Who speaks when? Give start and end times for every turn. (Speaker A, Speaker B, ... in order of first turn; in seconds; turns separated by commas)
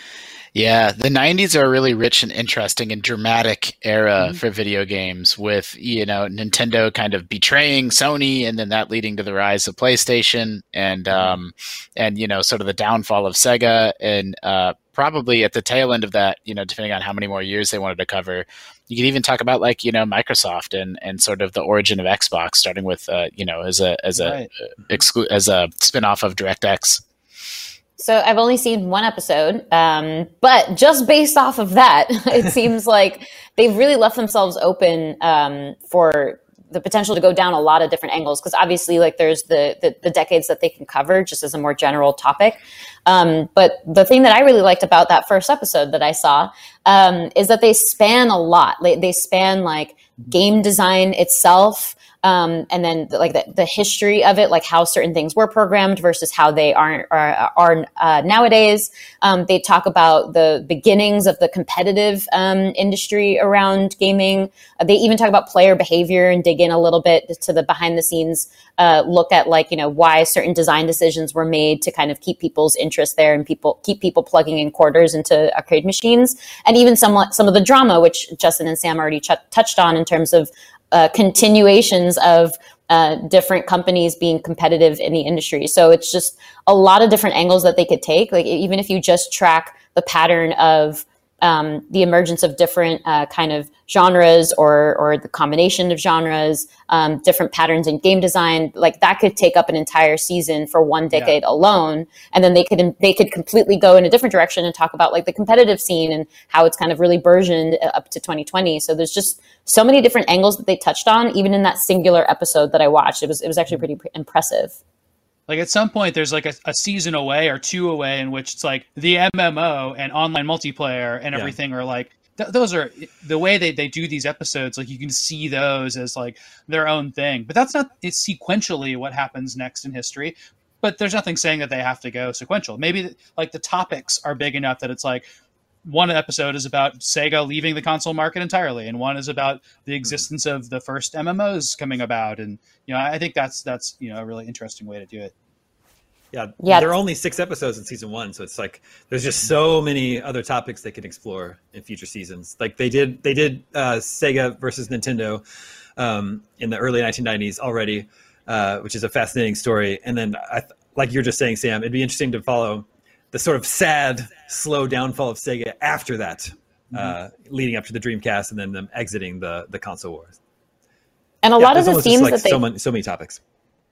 Speaker A: 0.5-27.0, Speaker B: 11.1-11.4, Speaker C: 24.1-24.5, Speaker D: 28.0-114.8, Speaker C: 115.5-135.2, Speaker C: 135.8-145.3, Speaker B: 146.3-155.4, Speaker D: 146.6-146.9, Speaker B: 156.0-170.4, Speaker D: 171.4-172.6, Speaker B: 171.6-173.4